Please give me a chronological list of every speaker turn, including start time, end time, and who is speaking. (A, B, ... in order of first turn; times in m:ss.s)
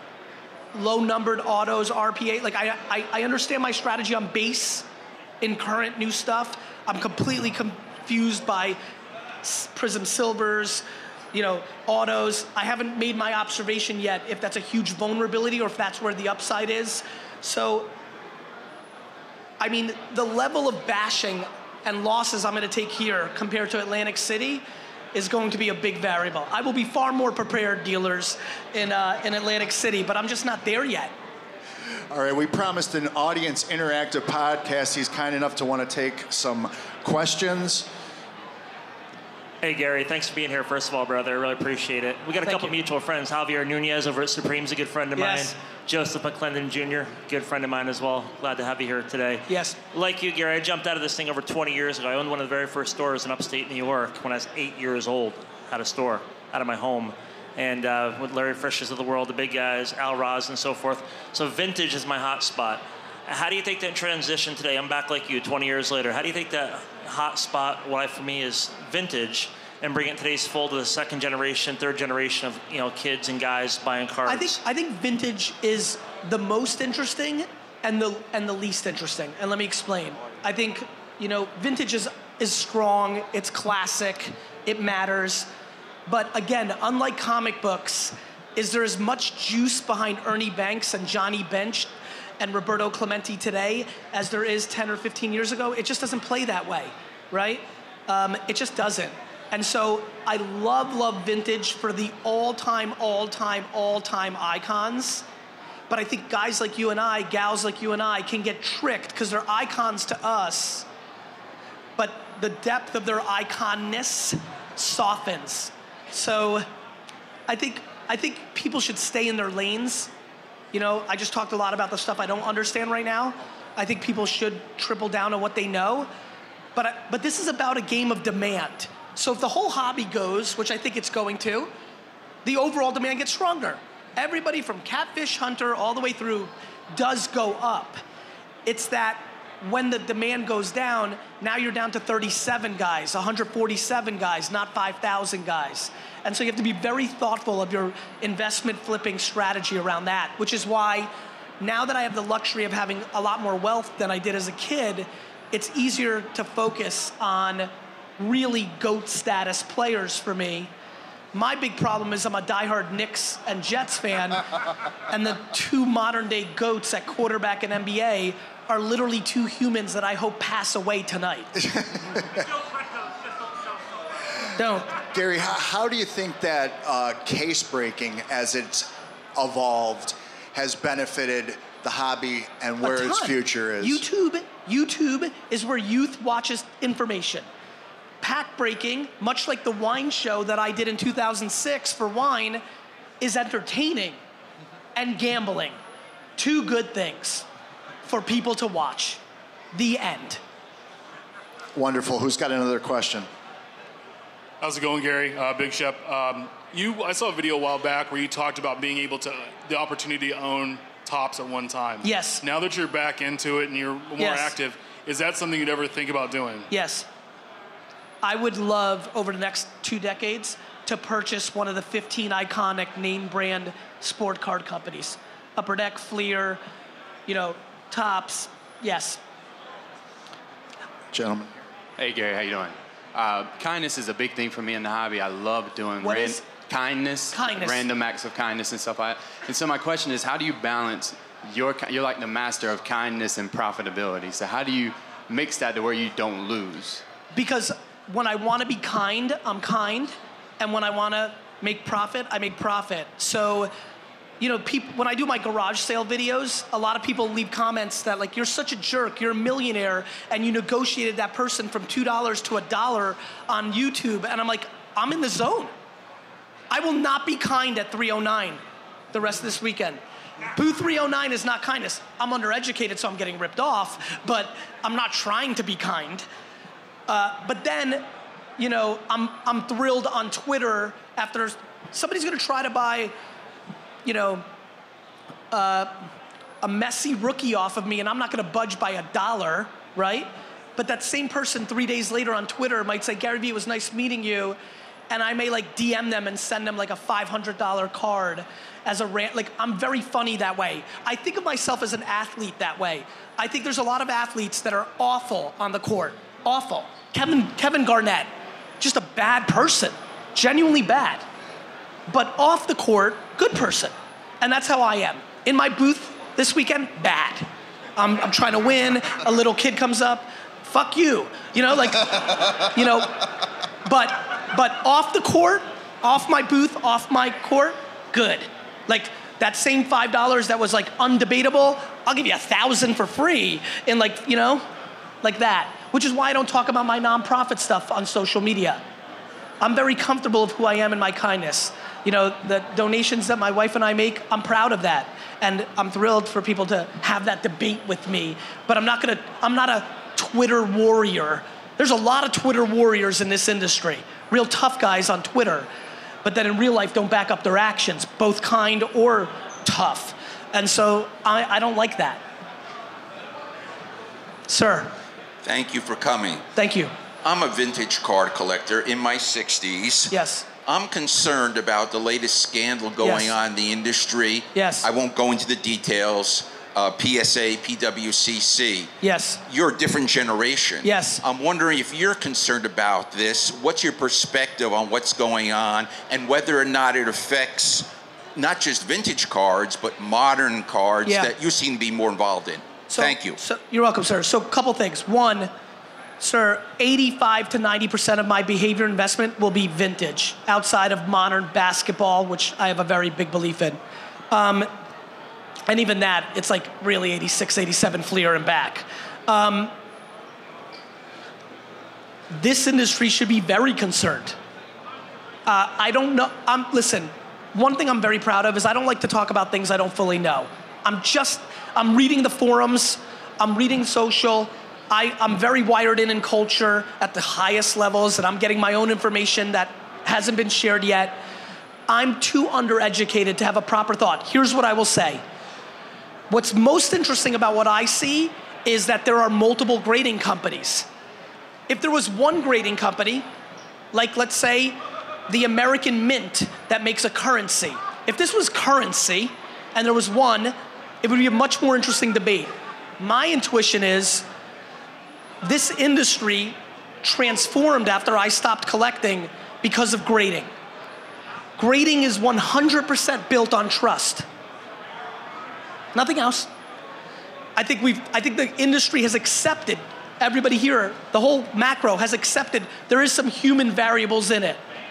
0:00.7-0:04.8 A
0:05.4-0:08.8 A
0:09.4-0:17.9 A
0:19.6-0:31.1 A
0:32.1-0:37.9 B
0:39.6-1:14.6 C
0:42.4-0:42.7 A
0:45.2-0:45.5 A
0:49.5-0:49.8 A
1:14.3-1:25.5 A
1:26.1-1:45.2 A
1:45.9-1:50.8 A
1:52.0-1:56.6 A
1:57.5-2:00.1 A
2:00.7-2:06.1 A
2:06.8-2:11.7 A
2:12.4-2:18.0 A
2:18.6-2:40.7 A
2:41.3-2:44.4 A
2:45.1-2:51.5 A
2:51.6-2:52.4 B
2:54.6-2:54.9 A
2:55.0-3:04.0 B
3:02.8-3:07.4 A
3:08.2-3:12.6 A
3:13.2-3:14.2 A
3:14.9-3:15.8 A
3:16.4-3:17.4 A
3:18.0-3:19.2 A
3:19.7-3:20.4 A
3:21.8-3:23.3 B
3:24.6-3:36.7 D
3:32.0-3:32.4 A
3:34.2-3:34.5 A
3:36.7-3:37.1 A
3:38.2-3:46.6 A
3:47.3-3:49.2 A
3:51.1-3:51.6 B
3:52.0-4:07.0 E
3:56.0-3:56.4 A
3:57.3-3:57.8 A
4:07.3-4:13.7 A
4:14.4-4:25.7 A
4:26.7-4:28.6 A
4:29.1-4:30.0 A
4:30.5-4:36.2 A
4:37.1-4:38.0 A
4:38.6-4:43.1 A
4:44.0-4:44.4 A
4:45.5-4:46.0 A
4:46.6-4:54.6 A
4:55.1-5:11.2 A
5:12.1-5:23.1 A
5:23.8-5:34.6 A
5:35.2-5:38.8 A
5:39.6-5:55.7 A
5:56.2-6:02.2 A
6:04.5-6:04.9 A
6:05.4-6:06.4 F
6:06.6-6:06.9 A
6:07.2-6:10.1 F
6:10.1-6:10.4 A
6:10.6-6:18.9 F
6:13.0-6:13.3 A
6:14.5-6:14.9 A
6:19.0-6:19.4 A
6:19.5-6:33.4 F
6:20.8-6:21.2 A
6:31.0-6:31.3 A
6:32.9-6:35.5 A
6:36.2-6:43.8 A
6:44.3-6:44.7 A
6:45.7-6:49.7 A
6:52.3-6:54.4 A
6:55.5-7:11.2 A
7:11.9-7:15.2 A
7:16.3-7:20.8 A
7:21.7-7:23.3 A
7:23.9-7:34.2 A
7:35.4-7:40.5 A
7:41.6-7:44.2 A
7:45.9-7:46.5 A
7:47.6-7:54.6 A